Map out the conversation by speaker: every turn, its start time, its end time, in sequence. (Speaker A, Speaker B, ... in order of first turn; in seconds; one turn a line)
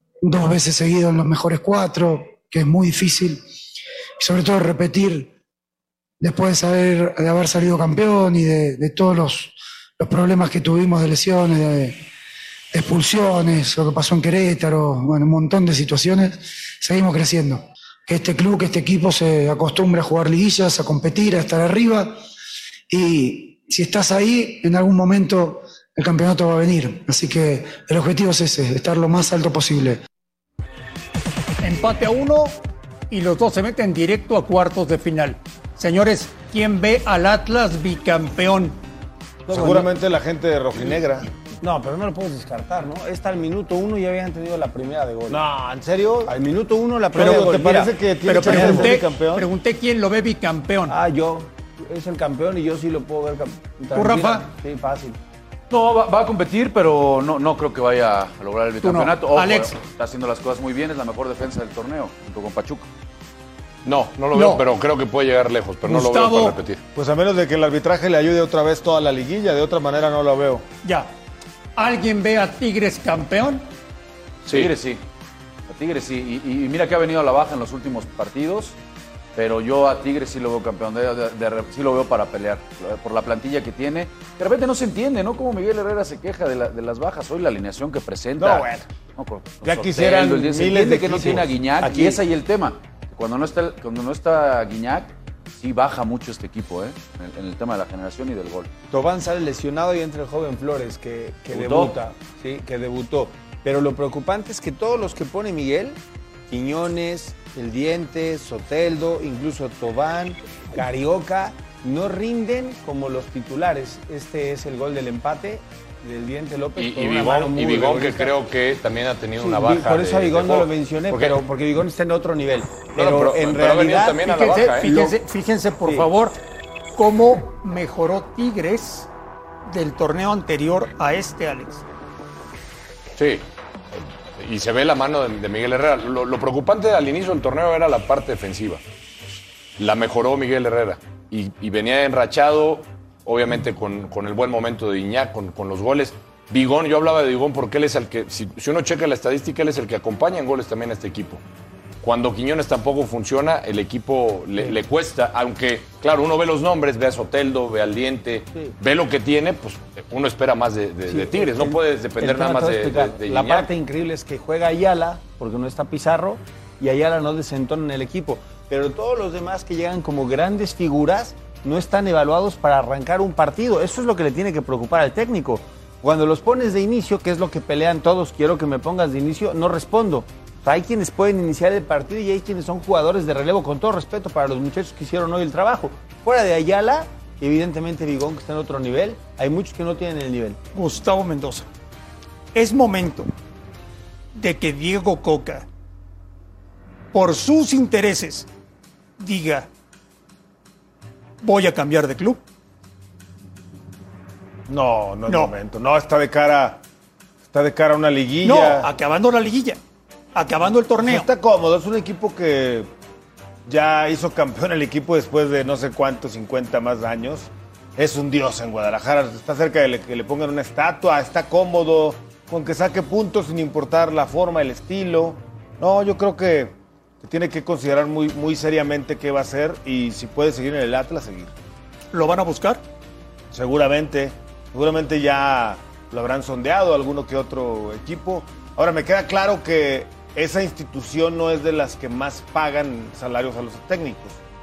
Speaker A: 0.2-3.4
Speaker A: 4.2-5.3
Speaker A: 6.2-12.0
Speaker A: 12.7-22.2
Speaker A: 22.9-30.0
Speaker B: 31.6-32.6
Speaker B: 33.1-38.8
Speaker C: 39.5-39.9
Speaker D: 39.5-41.3
Speaker C: 41.6-45.4
Speaker D: 45.3-46.3
Speaker C: 46.2-49.0
Speaker D: 47.1-49.5
Speaker B: 48.2-51.0
Speaker C: 50.9-55.2
Speaker B: 53.9-54.5
Speaker E: 55.7-62.9
Speaker B: 58.8-59.8
Speaker F: 63.8-66.8
Speaker B: 64.3-64.6
Speaker B: 65.8-66.6
Speaker D: 66.9-70.6
Speaker B: 70.8-71.1
Speaker B: 71.8-73.7
Speaker E: 74.5-75.0
Speaker F: 74.5-74.7
Speaker E: 75.7-78.8
Speaker E: 79.3-98.7
Speaker D: 88.4-88.8
Speaker D: 89.6-91.5
Speaker C: 91.9-92.2
Speaker C: 98.9-106.0
Speaker E: 101.5-101.9
Speaker C: 106.5-118.3
Speaker F: 116.8-121.4
Speaker C: 119.4-124.3
Speaker F: 122.9-125.1
Speaker B: 124.2-126.4
Speaker B: 127.0-129.1
Speaker B: 129.7-131.8
Speaker F: 133.2-133.4
Speaker F: 134.0-138.8
Speaker F: 139.8-151.4
Speaker F: 152.0-163.7
Speaker C: 161.1-190.6
Speaker B: 190.7-191.7
Speaker B: 192.5-193.3
Speaker B: 194.3-195.7
Speaker B: 197.1-198.5
Speaker B: 199.2-199.7
Speaker B: 201.4-202.4
Speaker D: 204.7-206.8
Speaker B: 205.3-205.5
Speaker D: 207.5-208.9
Speaker B: 208.4-209.8
Speaker B: 210.3-211.3
Speaker D: 211.0-212.9
Speaker D: 213.7-231.5
Speaker B: 232.1-232.8
Speaker D: 233.5-244.4